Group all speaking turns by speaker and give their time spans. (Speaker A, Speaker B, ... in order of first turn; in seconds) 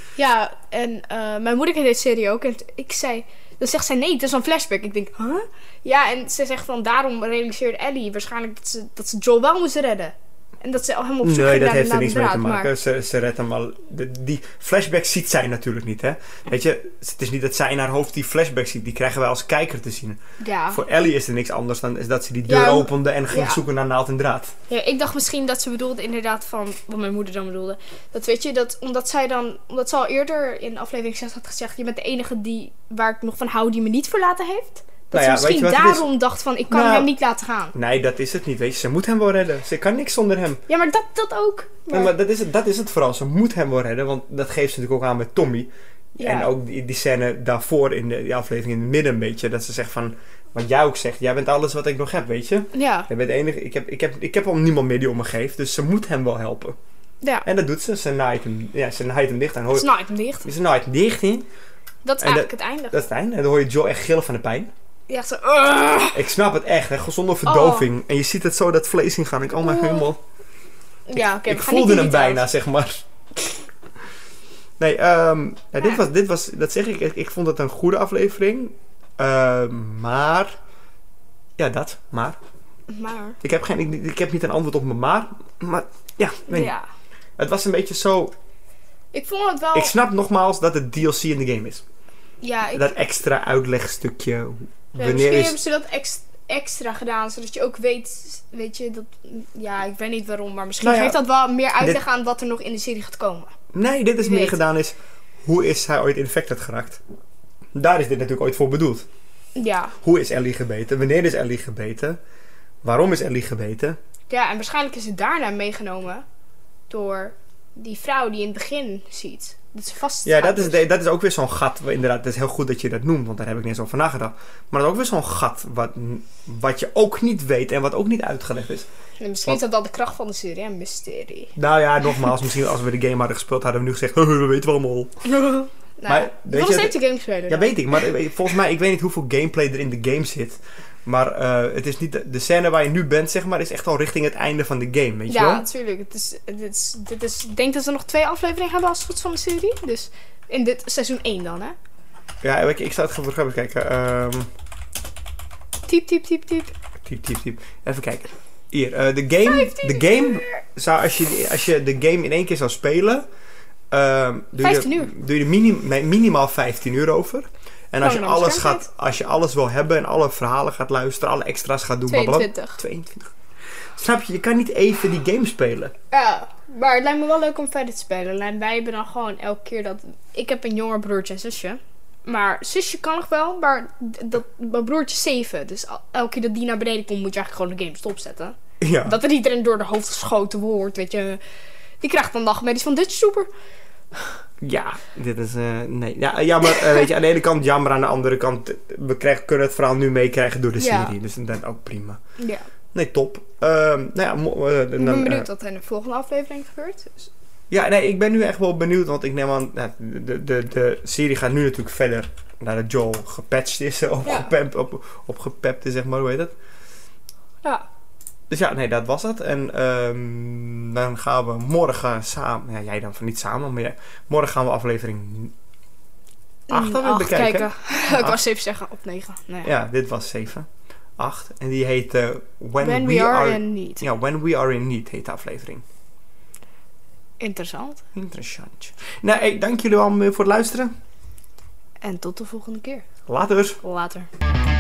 Speaker A: 0.1-12.7, 20.4-20.8, 22.5-23.6, 24.7-37.7, 40.7-42.1, 46.2-46.5, 52.7-53.1, 59.7-60.5, 62.0-63.0, 65.1-66.2, 67.4-67.9, 69.6-70.1, 71.1-72.4, 82.9-83.4, 86.5-86.8, 89.1-89.9, 92.4-92.9, 95.0-103.5, 104.2-104.6, 109.5-109.9, 114.3-116.2, 116.9-120.8, 129.2-131.5, 135.2-138.0, 145.3-151.8, 155.9-156.7, 159.4-160.6, 164.6-165.1, 168.0-168.8, 172.1-172.8, 176.1-191.4, 192.0-193.5, 196.6-197.1, 200.8-201.1, 202.4-202.7, 205.0-207.3, 214.2-214.5, 226.7-229.7, 232.8-234.0, 237.4-238.0, 242.0-243.0, 243.8-244.3
Speaker B: 11.2-24.5, 35.1-36.1, 36.7-37.1, 37.7-40.6, 41.9-56.8, 57.4-59.9, 60.4-61.5, 62.2-64.7, 66.1-70.2, 71.1-73.0, 74.8-80.5, 81.6-82.4, 83.4-86.7, 87.4-88.3, 89.7-91.8, 92.7-95.5, 100.8-101.2, 103.7-107.0, 107.7-109.0, 110.0-112.2, 112.8-114.0, 120.2-128.9, 131.6-135.2, 136.1-136.9, 137.5-145.6, 152.4-154.5, 157.0-163.2, 163.9-173.3, 174.0-175.9, 188.8-189.2, 194.6-202.2, 202.9-205.5, 207.7-216.5, 218.5-225.5, 226.7-228.4, 229.6-230.7, 231.2-235.8, 238.1-240.9, 243.3-243.8